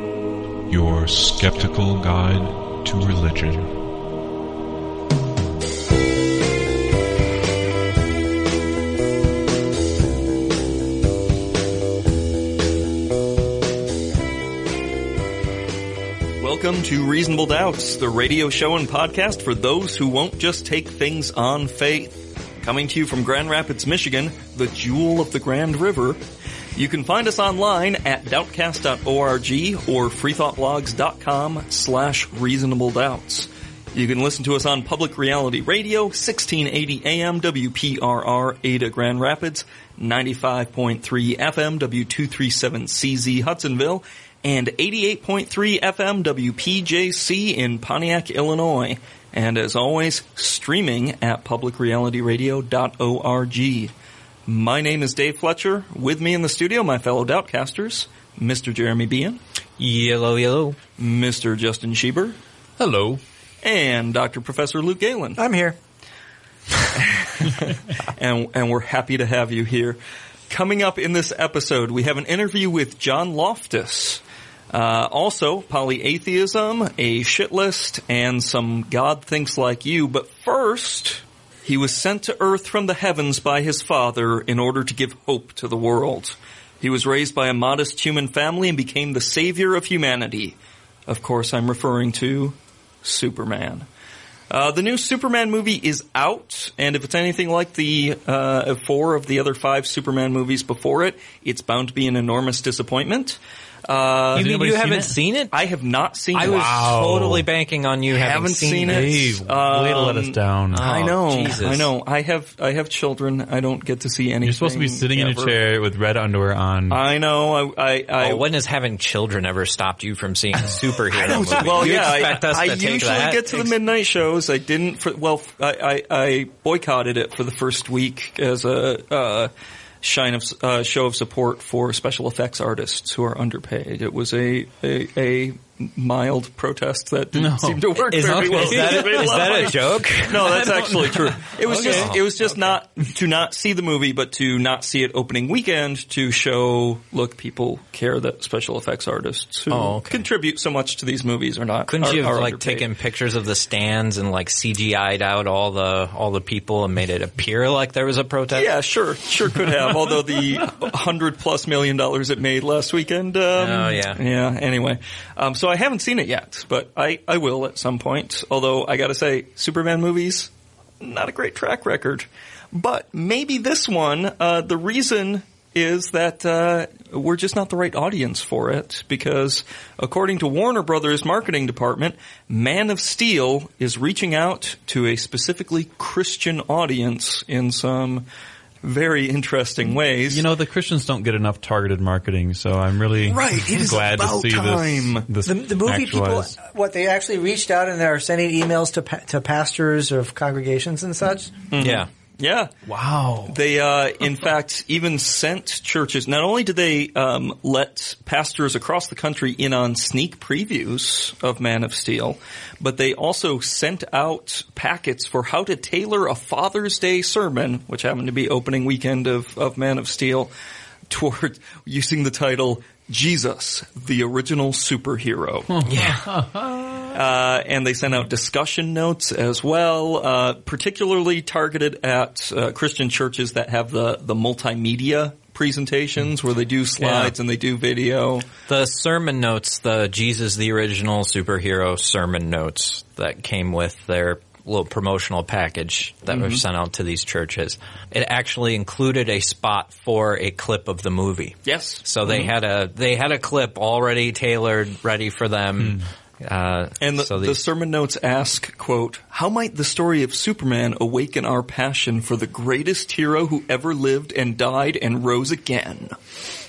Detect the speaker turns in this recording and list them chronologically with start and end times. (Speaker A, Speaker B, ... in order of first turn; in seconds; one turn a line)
Speaker A: 0.7-3.8
Speaker B: 16.4-26.2
Speaker B: 26.8-53.9
Speaker B: 54.5-59.4
Speaker C: 59.8-60.8
Speaker B: 61.0-62.4
Speaker D: 62.8-63.2
Speaker B: 63.6-65.4
Speaker E: 65.4-65.8
Speaker B: 67.0-70.0
Speaker B: 70.5-93.9
Speaker B: 94.5-104.5
Speaker C: 104.3-105.5
Speaker D: 104.3-105.2
Speaker B: 105.5-106.8
Speaker C: 106.3-109.1
Speaker D: 106.4-107.5
Speaker B: 108.1-115.6
Speaker D: 108.8-110.8
Speaker C: 110.7-111.9
Speaker D: 114.4-117.0
Speaker B: 116.9-118.5
Speaker C: 118.2-123.7
Speaker B: 121.2-129.5
Speaker D: 121.3-121.7
Speaker B: 130.0-152.9
Speaker D: 137.3-142.2
Speaker C: 138.1-140.6
Speaker C: 141.6-142.2
Speaker C: 149.7-150.2
Speaker C: 151.9-158.7
Speaker B: 158.5-170.5
Speaker C: 163.6-164.2
Speaker B: 171.0-188.3
Speaker B: 188.8-190.5
Speaker D: 190.3-196.5
Speaker B: 193.3-195.3
Speaker E: 195.4-201.6
Speaker B: 201.7-202.7
Speaker C: 201.8-202.1
Speaker D: 202.9-203.5
Speaker B: 203.5-220.5
Speaker B: 221.1-225.9
Speaker D: 225.8-226.8
Speaker C: 225.9-226.4
Speaker B: 227.1-238.4
Speaker C: 237.0-237.3
Speaker C: 238.7-257.6
Speaker B: 246.3-246.6
Speaker B: 251.7-252.5
Speaker D: 255.8-256.1
Speaker B: 257.0-266.1